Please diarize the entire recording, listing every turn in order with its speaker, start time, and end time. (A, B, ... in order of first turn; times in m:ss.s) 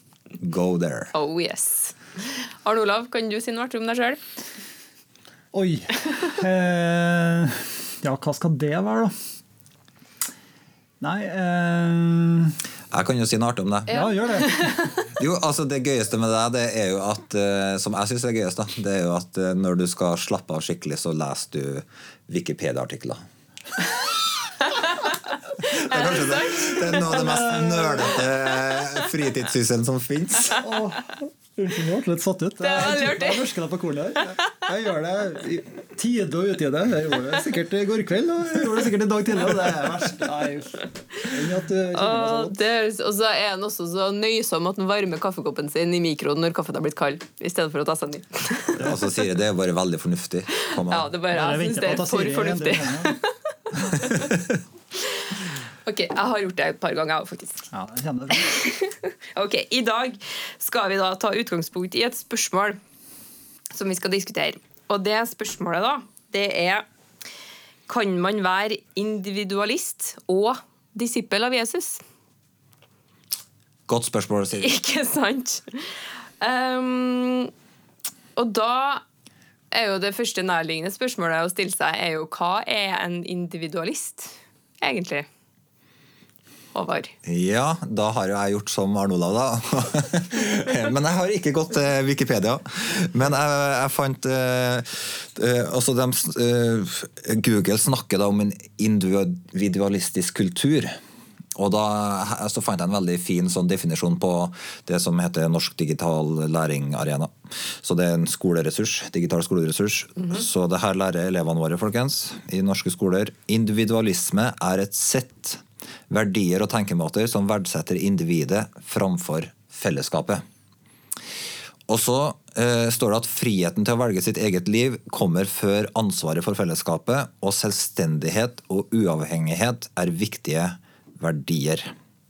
0:00.4-0:01.1 A
0:01.1-0:04.2 B
0:05.5-0:09.1 C
0:11.0-0:12.6 C
0:12.9-0:14.0 A
0:13.9-0:14.7 C
0:13.9-0:15.1 B
0:15.0-0:23.2 A
0:24.7-0:25.1 B
0:25.6-0:27.2 B
0:25.6-0:30.7 A
0:27.1-0:28.2 C
0:30.6-0:42.6 C
0:32.6-0:33.5 B
0:41.9-0:48.9 B
0:48.8-0:51.1 A
0:50.8-0:54.3 B
0:51.3-0:53.2 C
0:54.0-0:54.6 A
0:54.9-0:57.7 B
0:57.7-0:58.5 C
0:58.3-1:02.8 B
1:03.7-1:06.8 B
1:07.9-1:12.0 B
1:13.9-1:14.7 A
1:14.6-1:17.5 B
1:18.4-1:19.0 B
1:19.7-1:25.3 B
1:26.7-1:27.1 B
1:27.2-1:41.0 A
1:41.6-2:00.4 A
2:01.9-2:11.9 A